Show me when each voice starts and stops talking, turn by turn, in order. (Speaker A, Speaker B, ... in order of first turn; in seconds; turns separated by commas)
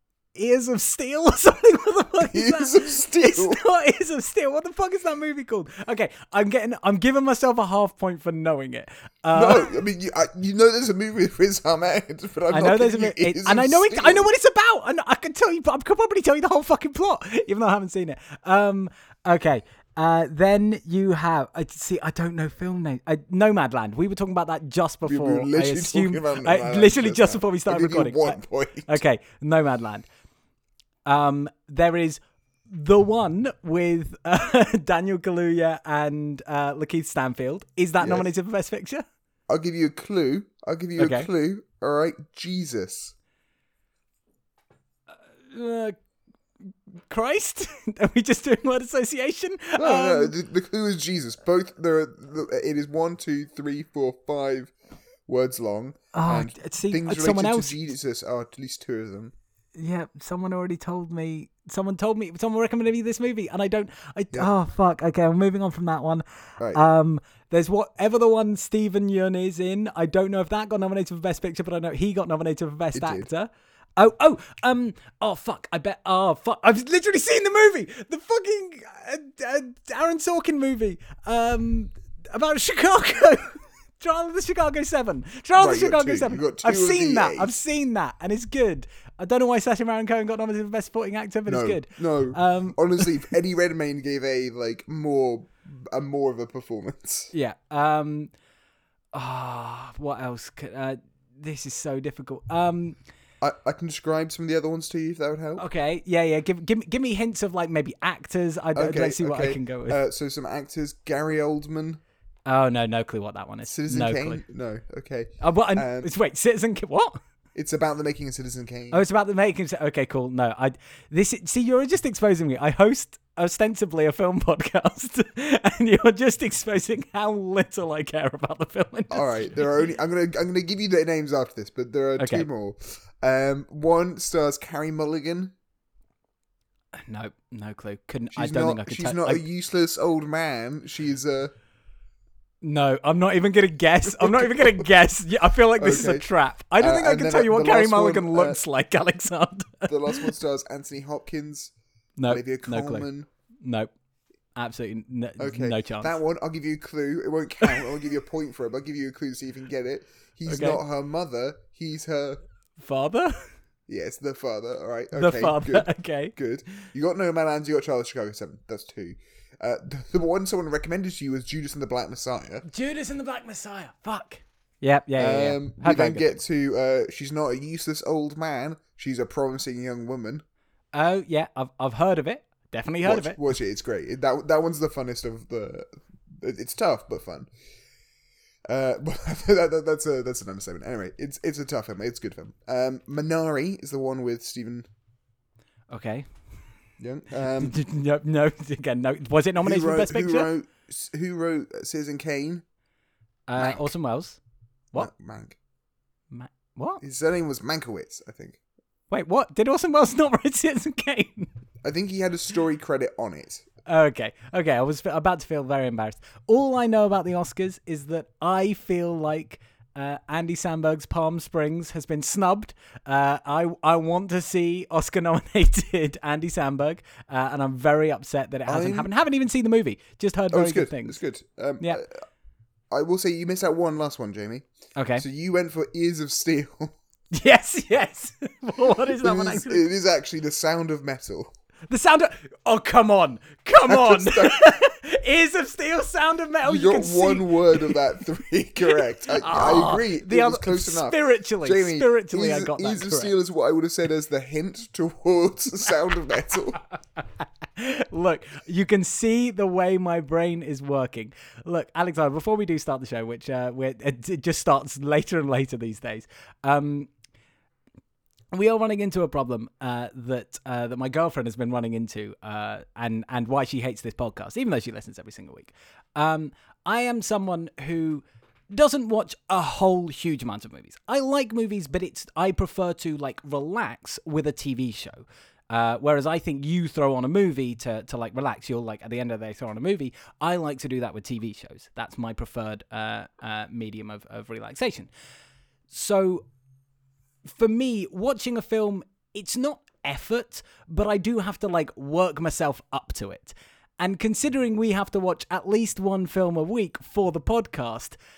Speaker A: 0.3-9.7, Speaker B: 2.3-3.6, Speaker B: 9.3-14.3, Speaker A: 12.5-30.1, Speaker B: 25.1-29.0, Speaker A: 31.1-39.0, Speaker B: 38.0-38.2, Speaker B: 39.5-43.1, Speaker A: 41.0-41.3, Speaker A: 45.5-46.0, Speaker A: 47.1-50.3, Speaker B: 49.8-54.7, Speaker B: 55.2-59.3, Speaker A: 56.1-57.7, Speaker A: 59.8-93.1, Speaker B: 72.9-73.3, Speaker B: 85.6-87.5, Speaker B: 91.5-97.3, Speaker A: 97.3-98.3, Speaker A: 99.1-103.0, Speaker B: 103.4-105.6, Speaker A: 105.6-110.0, Speaker B: 108.7-112.0, Speaker A: 112.5-114.4, Speaker B: 113.6-116.1, Speaker A: 115.4-117.2, Speaker B: 117.5-119.0, Speaker A: 118.9-129.6, Speaker B: 129.1-135.5, Speaker A: 132.2-132.5, Speaker A: 137.0-139.4, Speaker B: 138.3-141.5, Speaker A: 142.6-150.3, Speaker B: 144.1-144.9, Speaker B: 145.8-148.6, Speaker B: 149.9-151.7, Speaker A: 152.2-153.1, Speaker B: 152.3-153.3, Speaker A: 153.6-153.9, Speaker A: 154.5-156.1, Speaker B: 155.4-162.4, Speaker A: 160.5-160.8, Speaker A: 162.8-163.5, Speaker B: 163.9-172.6, Speaker A: 165.1-166.3, Speaker A: 172.7-176.3, Speaker B: 175.2-180.4, Speaker A: 180.9-183.4, Speaker B: 183.0-187.5, Speaker B: 188.7-194.9, Speaker A: 195.9-196.3, Speaker B: 197.0-197.8, Speaker A: 197.6-200.5, Speaker B: 199.6-202.6, Speaker A: 203.5-204.4, Speaker B: 203.6-203.9, Speaker B: 204.9-205.6, Speaker A: 206.3-207.0, Speaker B: 207.0-208.6, Speaker A: 209.1-211.5, Speaker B: 211.8-213.7, Speaker A: 213.8-231.2, Speaker B: 228.7-229.1, Speaker B: 230.5-232.2, Speaker B: 232.9-234.7, Speaker A: 234.9-235.2, Speaker B: 235.2-236.9, Speaker A: 237.3-239.8, Speaker B: 238.9-241.5, Speaker A: 241.9-248.0, Speaker B: 243.9-244.7, Speaker B: 246.6-256.8, Speaker A: 248.9-253.3, Speaker A: 257.8-267.1, Speaker A: 268.5-295.1, Speaker A: 295.9-296.4, Speaker A: 297.4-308.2